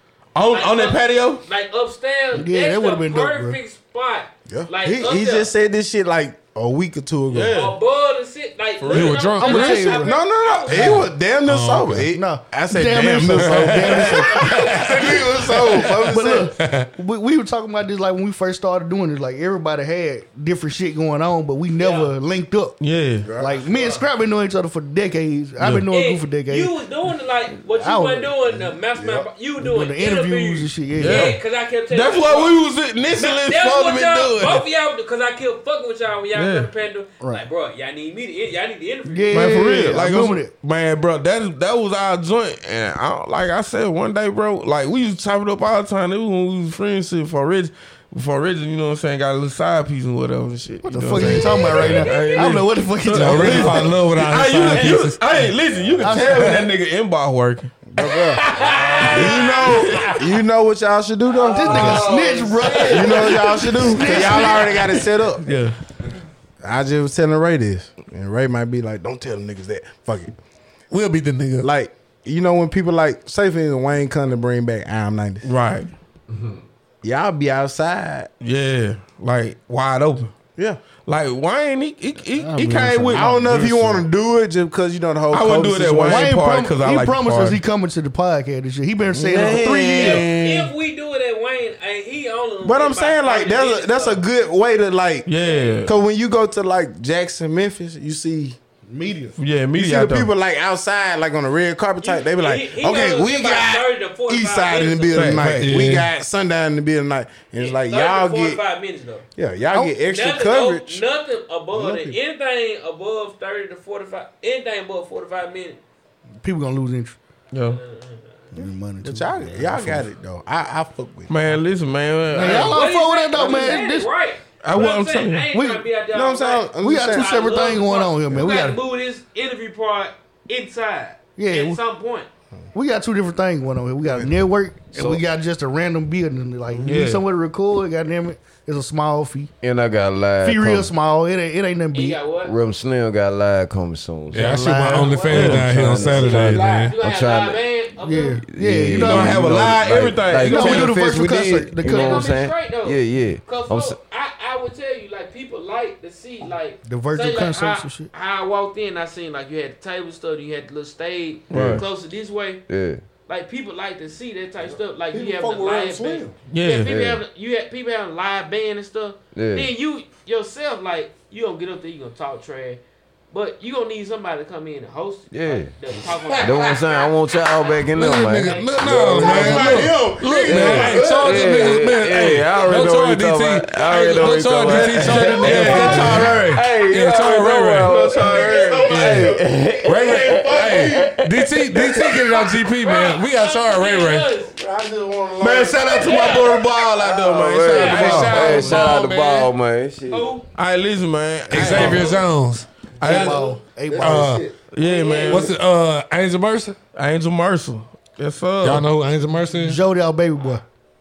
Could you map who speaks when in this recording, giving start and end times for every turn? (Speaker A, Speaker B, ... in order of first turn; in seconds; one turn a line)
Speaker A: 0.3-1.4
Speaker B: 0.5-5.5
Speaker C: 2.3-3.6
Speaker D: 4.5-7.6
Speaker A: 7.3-7.8
Speaker B: 7.5-11.1
Speaker A: 8.8-9.4
Speaker E: 8.9-9.9
Speaker C: 9.4-10.2
Speaker D: 9.9-16.6
Speaker E: 10.7-12.1
Speaker C: 12.1-14.8
Speaker E: 13.9-15.9
Speaker C: 15.9-22.8
Speaker E: 16.6-16.9
Speaker B: 21.8-22.1
Speaker A: 22.8-23.3
Speaker D: 23.2-23.7
Speaker C: 23.4-26.7
Speaker B: 23.6-24.0
Speaker A: 25.6-25.9
Speaker B: 25.9-32.6
Speaker C: 27.7-28.5
Speaker D: 28.9-29.3
Speaker C: 29.6-31.4
Speaker A: 31.0-34.7
Speaker B: 33.1-39.6
Speaker A: 36.3-36.7
Speaker C: 37.2-37.5
Speaker C: 39.1-40.5
Speaker A: 39.3-57.8
Speaker C: 50.9-54.0
Speaker B: 51.7-52.5
Speaker E: 53.1-55.2
Speaker C: 56.0-56.7
Speaker D: 57.9-62.2
Speaker B: 58.4-60.2
Speaker A: 58.4-60.2
Speaker F: 58.6-59.4
Speaker F: 61.5-63.1
Speaker C: 61.5-65.0
Speaker B: 61.7-63.1
Speaker D: 62.8-65.4
Speaker A: 65.4-65.8
Speaker D: 66.6-70.3
Speaker E: 70.9-71.7
Speaker D: 71.6-75.5
Speaker A: 75.4-75.9
Speaker D: 77.0-78.3
Speaker A: 78.4-80.4
Speaker D: 80.5-80.8
Speaker A: 81.0-84.0
Speaker C: 82.4-83.4
Speaker D: 83.1-86.4
Speaker A: 85.3-87.6
Speaker C: 86.0-90.2
Speaker A: 89.2-90.3
Speaker D: 89.3-90.7
Speaker F: 89.5-90.2
Speaker B: 90.1-94.2
Speaker D: 92.6-95.3
Speaker A: 95.3-95.9
Speaker B: 95.4-95.9
Speaker D: 95.8-98.6
Speaker C: 98.9-99.4
Speaker A: 99.4-100.3
Speaker D: 99.7-108.6
Speaker B: 102.0-105.3
Speaker A: 105.1-105.9
Speaker E: 105.6-106.1
Speaker B: 107.6-109.3
Speaker D: 109.4-111.0
Speaker B: 110.1-115.8
Speaker D: 111.7-112.2
Speaker C: 116.4-117.2
Speaker A: 117.5-117.8
Speaker B: 117.7-118.3
Speaker C: 118.5-120.0
Speaker D: 118.6-121.3
Speaker A: 121.3-122.8
Speaker C: 122.3-124.1
Speaker B: 122.4-132.3
Speaker A: 123.4-123.7
Speaker A: 124.6-125.5
Speaker C: 125.5-125.9
Speaker D: 126.1-127.6
Speaker C: 126.8-128.8
Speaker C: 131.4-131.8
Speaker C: 132.7-139.5
Speaker F: 134.9-135.2
Speaker A: 136.8-137.3
Speaker F: 139.6-140.9
Speaker C: 140.4-142.2
Speaker B: 141.9-142.5
Speaker F: 142.4-147.6
Speaker E: 144.3-146.9
Speaker C: 144.3-145.1
Speaker B: 144.9-148.4
Speaker A: 145.3-145.8
Speaker C: 148.0-149.8
Speaker F: 148.5-154.0
Speaker A: 148.9-151.0
Speaker C: 150.4-152.3
Speaker B: 151.9-162.6
Speaker C: 156.8-158.1
Speaker A: 161.5-161.8
Speaker F: 161.5-161.8
Speaker F: 162.7-163.0
Speaker B: 163.3-179.8
Speaker D: 165.1-166.4
Speaker A: 166.5-166.9
Speaker F: 166.8-167.2
Speaker F: 169.3-169.7
Speaker F: 175.3-175.7
Speaker E: 176.3-176.8
Speaker F: 176.4-179.9
Speaker E: 177.9-188.0
Speaker D: 179.1-181.5
Speaker F: 180.5-191.3
Speaker B: 180.5-181.0
Speaker A: 184.6-189.3
Speaker D: 188.1-191.2
Speaker E: 188.9-194.3
Speaker A: 189.9-190.8
Speaker B: 192.3-194.5
Speaker D: 194.5-196.3
Speaker A: 195.4-198.7
Speaker B: 196.0-196.6
Speaker F: 197.0-200.3
Speaker B: 197.7-199.5
Speaker E: 197.7-199.4
Speaker D: 197.9-198.6
Speaker B: 200.1-200.4
Speaker A: 200.6-202.2
Speaker E: 201.5-202.7
Speaker B: 201.7-202.2
Speaker A: 203.0-203.5
Speaker C: 203.0-204.4
Speaker D: 203.0-205.4
Speaker E: 204.0-204.4
Speaker A: 204.7-205.5
Speaker B: 204.8-205.5
Speaker E: 205.3-206.8
Speaker A: 206.9-208.9
Speaker E: 208.6-209.8
Speaker C: 209.5-210.6